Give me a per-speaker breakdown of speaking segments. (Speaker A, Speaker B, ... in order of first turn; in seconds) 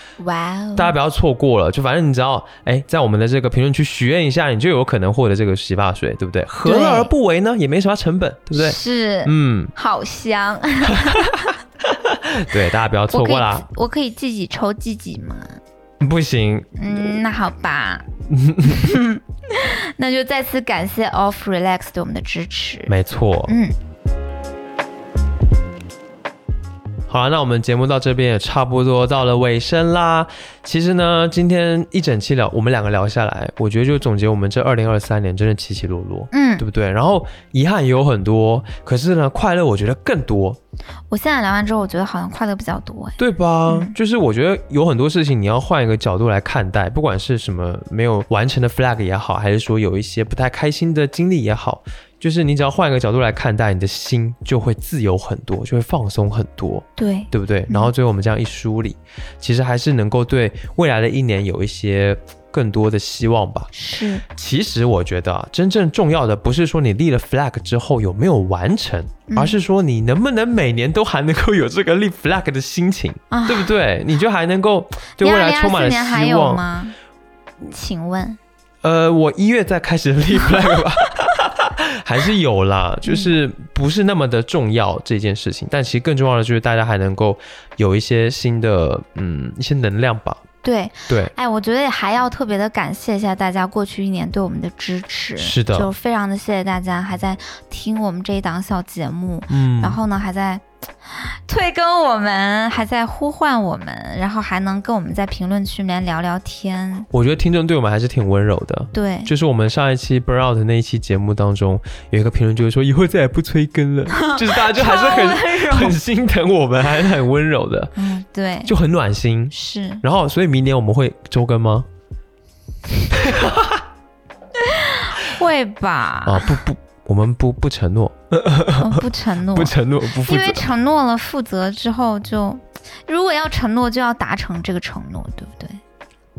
Speaker A: 0.2-0.9, 6.6-7.1, 8.5-11.6, 13.1-15.6, 16.8-18.1, 18.6-22.9, 23.5-23.7, 36.3-36.6, 41.1-43.9, 57.0-57.9, 63.7-64.2, 69.3-69.6, 73.3-73.7, 75.2-76.9, 77.7-78.4, 83.0-83.3, 90.6-107.1, 108.9-109.3, 114.1-116.0, 118.0-118.7, 119.5-120.0, 124.6-126.6, 128.8-135.8
Speaker B: 0.8-9.7, 10.9-13.7, 16.0-16.7, 18.3-18.8, 22.9-23.6, 27.1-40.6, 43.2-63.7, 64.3-76.6, 78.8-90.4, 91.1-91.3, 95.4-95.9, 99.5-100.0, 107.1-117.9, 118.6-121.9, 123.1-123.8, 126.2-130.7